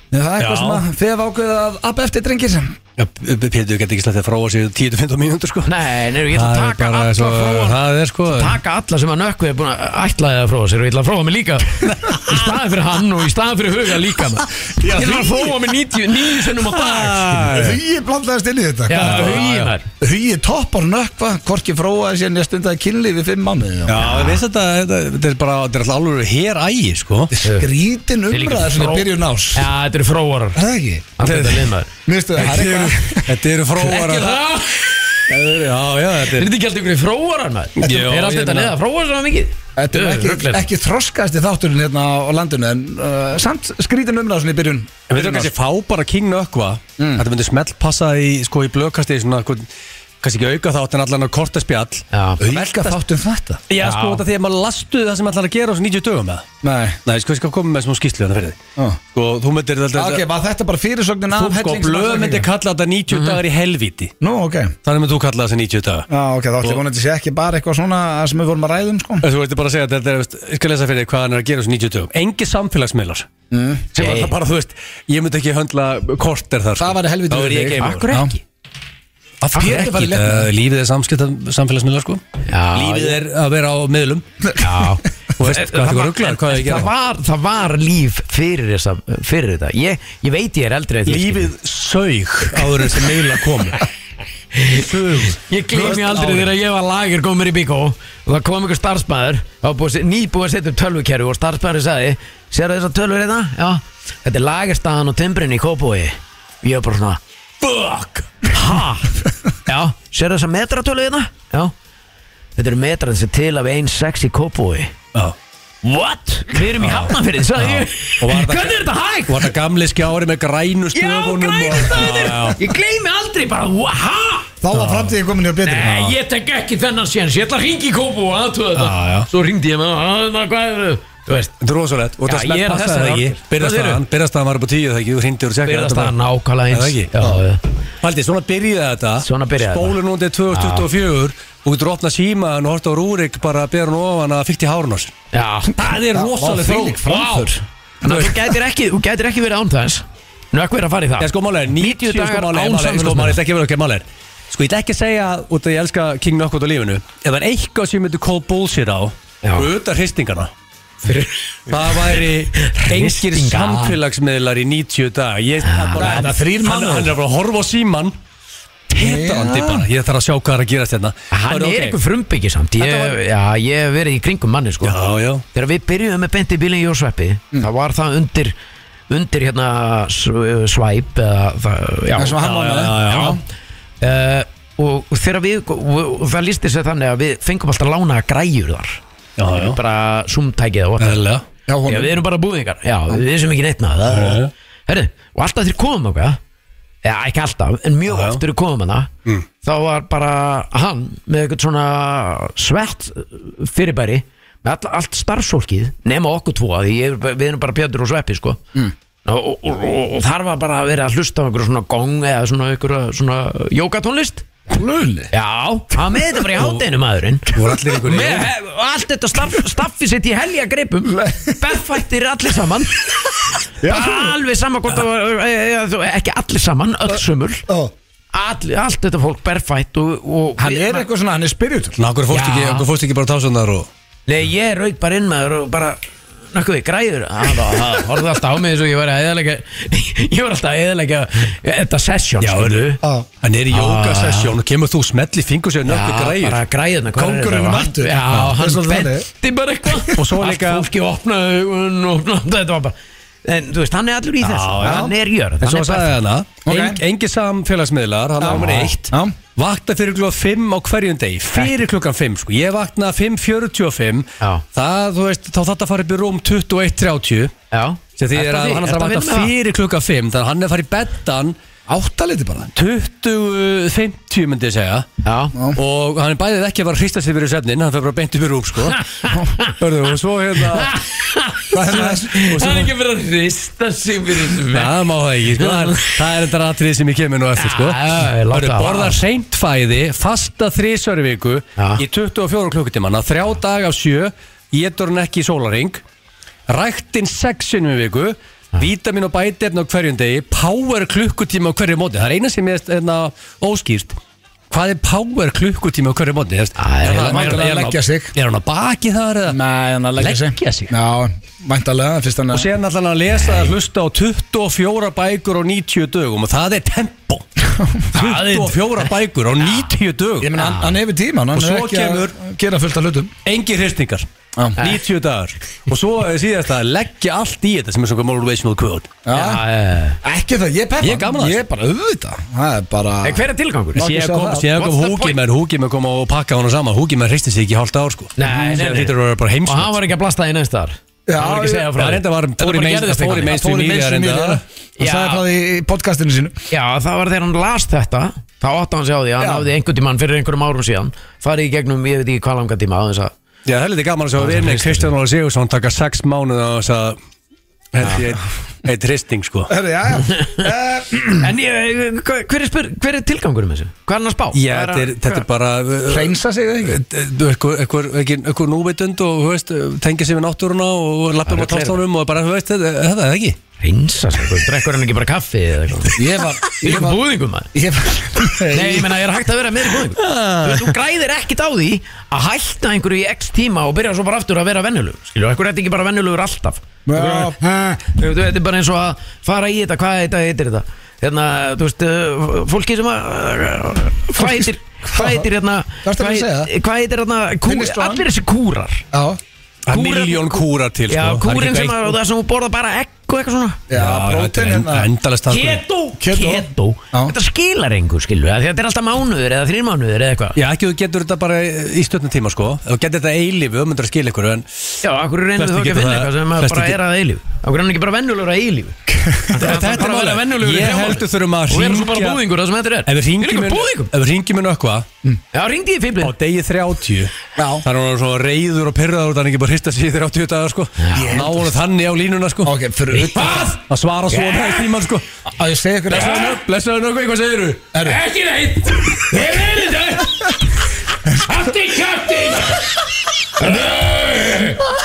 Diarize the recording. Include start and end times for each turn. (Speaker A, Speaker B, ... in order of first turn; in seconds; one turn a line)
Speaker A: 0.1-2.8
Speaker B: 0.4-0.8
Speaker B: 3.0-8.6
Speaker C: 5.7-17.4
Speaker B: 11.8-12.4
Speaker A: 14.8-15.6
Speaker B: 16.5-17.8
Speaker A: 17.4-19.4
Speaker C: 18.9-19.9
Speaker B: 18.9-19.7
Speaker A: 20.0-24.2
Speaker B: 23.9-27.3
Speaker C: 24.0-24.4
Speaker A: 27.3-29.7
Speaker C: 27.4-27.7
Speaker C: 28.3-30.6
Speaker A: 30.6-31.1
Speaker C: 31.2-31.9
Speaker B: 31.2-31.7
Speaker A: 32.1-33.3
Speaker B: 32.4-34.5
Speaker C: 33.8-35.2
Speaker B: 35.3-36.5
Speaker C: 36.3-40.7
Speaker B: 37.8-38.7
Speaker A: 39.8-45.5
Speaker B: 45.1-49.7
Speaker A: 47.0-47.2
Speaker B: 50.2-53.0
Speaker C: 52.1-52.4
Speaker A: 52.4-53.6
Speaker B: 53.7-56.5
Speaker C: 53.8-54.2
Speaker A: 56.6-57.0
Speaker B: 57.0-58.6
Speaker B: 59.1-60.2
Speaker A: 59.9-62.5
Speaker B: 61.3-64.1
Speaker C: 63.1-63.4
Speaker A: 64.2-64.8
Speaker B: 64.8-66.1
Speaker A: 66.1-69.3
Speaker B: 69.2-73.3
Speaker A: 73.5-73.9
Speaker C: 74.0-74.3
Speaker B: 74.0-78.1
Speaker A: 76.8-78.3
Speaker C: 77.8-78.4
Speaker B: 79.4-84.2
Speaker C: 79.5-79.8
Speaker A: 79.5-80.5
Speaker C: 82.5-83.2
Speaker C: 84.6-91.5
Speaker B: 85.4-86.9
Speaker B: 91.1-93.8
Speaker C: 94.5-109.1
Speaker B: 94.7-96.5
Speaker C: 109.7-111.7
Speaker C: 112.6-114.9
Speaker C: 115.8-119.5
Speaker B: 116.7-122.6
Speaker C: 120.9-124.5
Speaker A: 124.6-126.2
Speaker B: 124.7-125.2
Speaker C: 125.6-131.5
Speaker B: 128.8-129.3
Speaker B: 131.6-136.2
Speaker C: 132.2-134.0
Speaker C: 135.6-137.6
Speaker B: 136.7-137.3
Speaker B: 138.0-145.1
Speaker C: 139.2-140.0
Speaker C: 140.5-140.9
Speaker C: 145.3-145.8
Speaker B: 145.8-147.4
Speaker A: 146.1-147.6
Speaker C: 147.1-147.4
Speaker C: 148.0-153.4
Speaker B: 148.1-148.5
Speaker B: 151.2-160.5
Speaker C: 159.4-159.7
Speaker C: 161.0-164.0
Speaker B: 161.7-168.2
Speaker C: 165.6-166.3
Speaker A: 165.9-167.2
Speaker B: 168.9-172.0
Speaker A: 168.9-169.9
Speaker C: 171.3-175.0
Speaker B: 172.8-173.2
Speaker B: 174.8-175.4
Speaker C: 175.5-178.6
Speaker C: 179.1-182.4
Speaker A: 182.2-183.3
Speaker B: 182.4-183.4
Speaker C: 183.1-183.4
Speaker C: 184.0-189.0
Speaker B: 189.4-189.8
Speaker C: 189.6-191.2
Speaker B: 191.0-191.4
Speaker A: 191.7-192.2
Speaker C: 191.9-196.4
Speaker B: 194.1-194.5
Speaker C: 197.0-199.1
Speaker B: 198.1-198.4
Speaker C: 199.6-208.6
Speaker C: 209.2-214.5
Speaker A: 214.7-215.3
Speaker C: 215.3-223.1
Speaker B: 217.5-218.5
Speaker A: 221.1-221.6
Speaker A: 223.8-224.4
Speaker C: 223.8-227.7
Speaker A: 227.7-227.9
Speaker C: 228.3-231.1
Speaker A: 230.6-232.0
Speaker B: 232.0-233.9
Speaker C: 232.3-232.9
Speaker C: 234.3-236.0
Speaker C: 236.5-243.0
Speaker B: 242.4-246.6
Speaker A: 243.0-243.3
Speaker C: 243.7-244.6
Speaker C: 245.9-256.2
Speaker A: 247.1-249.3
Speaker B: 250.1-250.9
Speaker B: 254.4-267.5
Speaker A: 254.8-255.1
Speaker A: 256.6-257.0
Speaker A: 258.4-259.4
Speaker C: 258.5-258.9
Speaker C: 267.7-269.5
Speaker B: 268.2-271.6
Speaker A: 271.9-272.7
Speaker B: 272.7-275.1
Speaker C: 275.2-275.6
Speaker A: 275.5-275.8
Speaker B: 275.8-279.0
Speaker C: 278.9-279.8
Speaker B: 279.8-280.9
Speaker C: 280.7-285.0
Speaker A: 281.7-282.6
Speaker B: 282.4-282.9
Speaker B: 284.6-296.0
Speaker C: 285.6-286.2
Speaker C: 287.6-289.2
Speaker C: 291.8-292.0
Speaker B: 296.7-304.2
Speaker B: 304.7-309.6
Speaker C: 306.8-307.7
Speaker A: 307.1-308.3
Speaker A: 309.5-312.7
Speaker B: 310.2-310.9
Speaker B: 312.5-317.4
Speaker C: 313.4-313.7
Speaker A: 317.7-318.1
Speaker B: 318.1-320.6
Speaker C: 318.1-319.1
Speaker A: 320.4-323.3
Speaker C: 320.6-320.9
Speaker B: 321.5-322.3
Speaker B: 323.4-324.2
Speaker B: 324.8-329.1
Speaker A: 329.3-329.6
Speaker C: 329.3-330.2
Speaker A: 330.2-334.7
Speaker B: 331.0-331.6
Speaker C: 333.2-334.1
Speaker B: 334.0-340.0
Speaker C: 334.7-335.4
Speaker C: 338.4-343.6
Speaker A: 338.5-338.8
Speaker A: 341.3-341.9
Speaker B: 341.9-344.6
Speaker A: 343.3-346.6
Speaker C: 345.0-345.4
Speaker C: 346.7-353.3
Speaker A: 349.4-349.7
Speaker B: 353.7-357.2
Speaker C: 354.4-355.1
Speaker B: 357.9-359.7
Speaker A: 359.7-361.5
Speaker C: 360.3-360.6
Speaker C: 361.4-365.4
Speaker B: 364.5-373.6
Speaker A: 366.1-367.0
Speaker C: 371.5-372.0
Speaker C: 373.8-377.7
Speaker A: 376.2-379.2
Speaker C: 378.7-399.0
Speaker B: 380.1-380.9
Speaker A: 387.1-387.6
Speaker A: 394.4-395.5
Speaker A: 396.0-396.7
Speaker A: 397.6-398.3
Speaker A: 399.1-399.4
Speaker B: 399.9-402.2
Speaker C: 399.9-403.8
Speaker A: 403.9-405.1
Speaker B: 403.9-405.8
Speaker C: 405.5-410.6
Speaker A: 406.2-407.3
Speaker B: 410.6-414.7
Speaker C: 415.0-424.1
Speaker B: 415.6-417.0
Speaker B: 419.5-422.4
Speaker B: 423.1-425.1
Speaker C: 425.5-426.3
Speaker B: 426.2-427.3
Speaker A: 427.6-427.9
Speaker B: 427.8-432.8
Speaker C: 431.0-431.4
Speaker A: 431.1-431.8
Speaker A: 432.6-433.8
Speaker C: 433.1-433.8
Speaker B: 433.5-435.2
Speaker C: 434.3-434.9
Speaker A: 435.6-436.6
Speaker B: 436.1-437.9
Speaker A: 437.9-438.2
Speaker C: 438.0-440.6
Speaker C: 441.4-442.9
Speaker C: 443.6-444.9